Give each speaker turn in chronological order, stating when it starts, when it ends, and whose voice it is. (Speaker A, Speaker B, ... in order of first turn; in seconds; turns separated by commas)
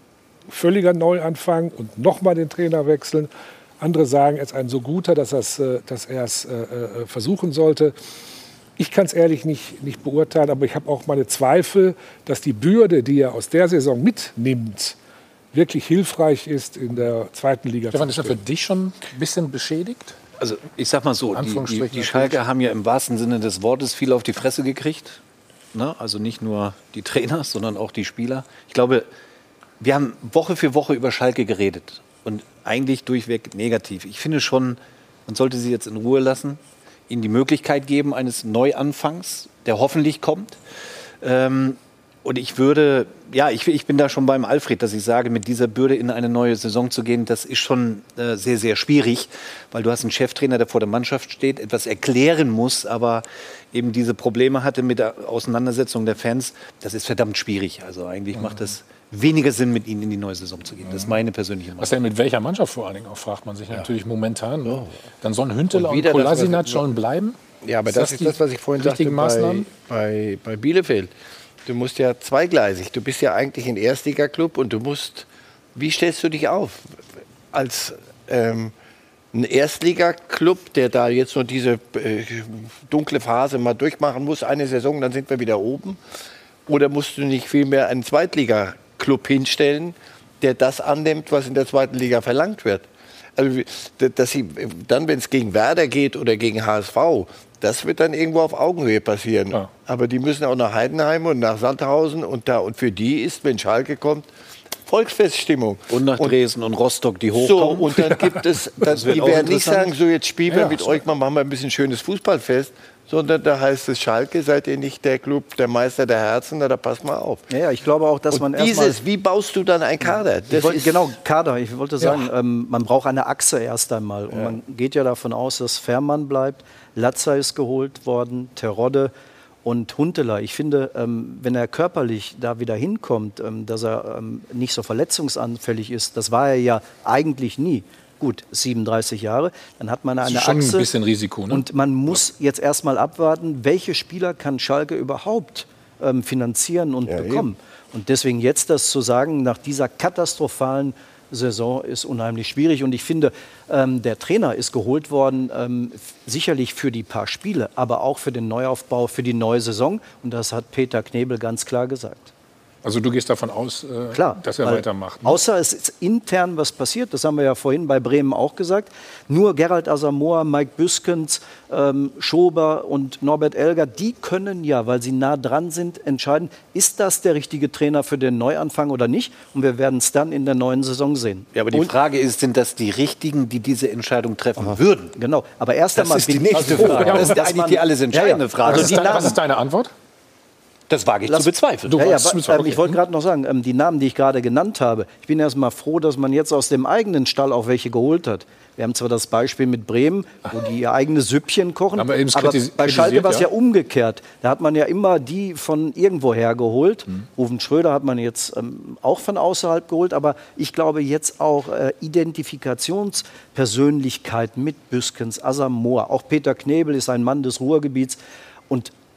Speaker A: 0.5-7.9, Speaker A: 8.8-14.9, Speaker A: 15.5-18.4, Speaker B: 17.9-20.2, Speaker C: 20.4-25.2, Speaker B: 21.3-22.4, Speaker C: 25.7-29.1, Speaker C: 29.8-40.6, Speaker C: 41.2-62.0, Speaker B: 58.4-58.7, Speaker B: 60.9-61.2, Speaker B: 61.8-67.4, Speaker D: 64.6-65.0, Speaker D: 65.7-67.0, Speaker D: 67.6-71.1, Speaker B: 67.9-69.7, Speaker D: 71.7-77.0, Speaker D: 77.5-78.7, Speaker D: 79.3-86.0, Speaker D: 86.7-92.8, Speaker D: 93.4-104.3, Speaker D: 104.8-106.4, Speaker C: 105.9-108.2, Speaker D: 107.3-117.5, Speaker C: 108.8-109.9, Speaker E: 109.1-109.4, Speaker E: 117.5-119.0, Speaker D: 118.3-121.2, Speaker E: 120.5-129.1, Speaker D: 124.3-124.6, Speaker E: 129.6-140.9, Speaker B: 140.2-142.2, Speaker E: 141.5-162.3, Speaker D: 147.1-147.5, Speaker B: 162.8-165.4, Speaker E: 164.1-181.5, Speaker C: 181.5-185.2, Speaker E: 185.1-189.4, Speaker C: 185.9-189.3, Speaker B: 186.5-187.3, Speaker B: 188.6-189.9, Speaker C: 190.9-192.0, Speaker E: 191.3-218.2, Speaker B: 191.9-193.0, Speaker B: 201.9-203.5, Speaker E: 218.7-218.9